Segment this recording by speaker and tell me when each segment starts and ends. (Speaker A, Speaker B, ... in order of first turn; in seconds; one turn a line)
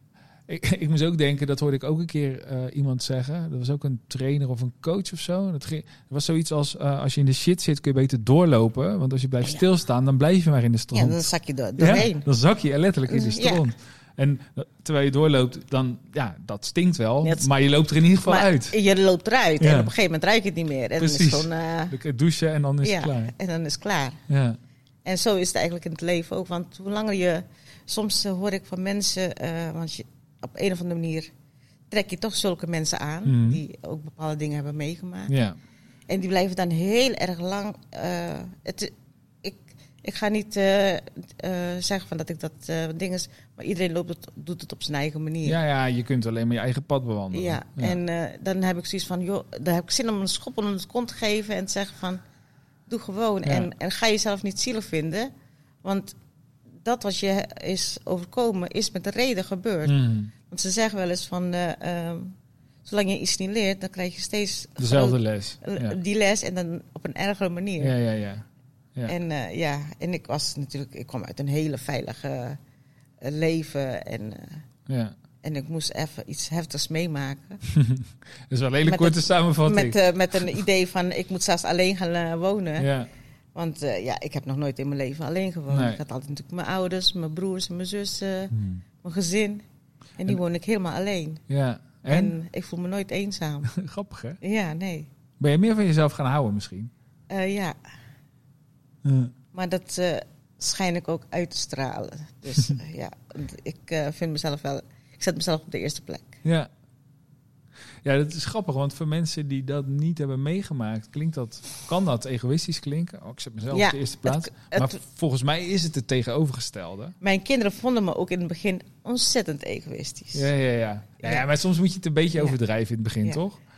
Speaker A: 0.5-18.8
Speaker B: 10.9-12.2
Speaker B: 13.1-13.7
Speaker B: 18.2-21.9
Speaker A: 19.6-19.9
Speaker A: 21.0-23.3
Speaker B: 22.8-24.2
Speaker A: 24.3-24.6
Speaker B: 25.1-31.3
Speaker B: 31.9-35.3
Speaker A: 33.2-33.6
Speaker A: 35.3-35.6
Speaker B: 36.1-38.9
Speaker B: 39.4-45.6
Speaker A: 45.4-48.0
Speaker B: 47.3-52.2
Speaker B: 52.9-55.3
Speaker A: 53.5-53.7
Speaker B: 55.8-56.1
Speaker B: 56.8-67.9
Speaker A: 59.9-60.3
Speaker A: 64.8-66.0
Speaker A: 67.8-69.1
Speaker B: 69.1-72.6
Speaker B: 73.2-74.7
Speaker A: 74.9-75.2
Speaker B: 75.4-77.6
Speaker A: 77.7-80.0
Speaker B: 78.8-82.9
Speaker A: 82.8-83.1
Speaker B: 83.5-89.6
Speaker A: 85.7-86.0
Speaker A: 88.5-88.8
Speaker B: 90.2-91.4
Speaker A: 91.5-92.3
Speaker B: 92.1-93.7
Speaker A: 93.7-94.4
Speaker B: 94.4-95.1
Speaker A: 95.4-96.9
Speaker B: 97.3-97.8
Speaker A: 99.0-99.3
Speaker B: 99.5-106.4
Speaker A: 106.4-106.7
Speaker A: 108.0-117.2
Speaker B: 113.7-115.0
Speaker B: 117.2-120.5
Speaker A: 120.3-123.6
Speaker B: 121.2-121.5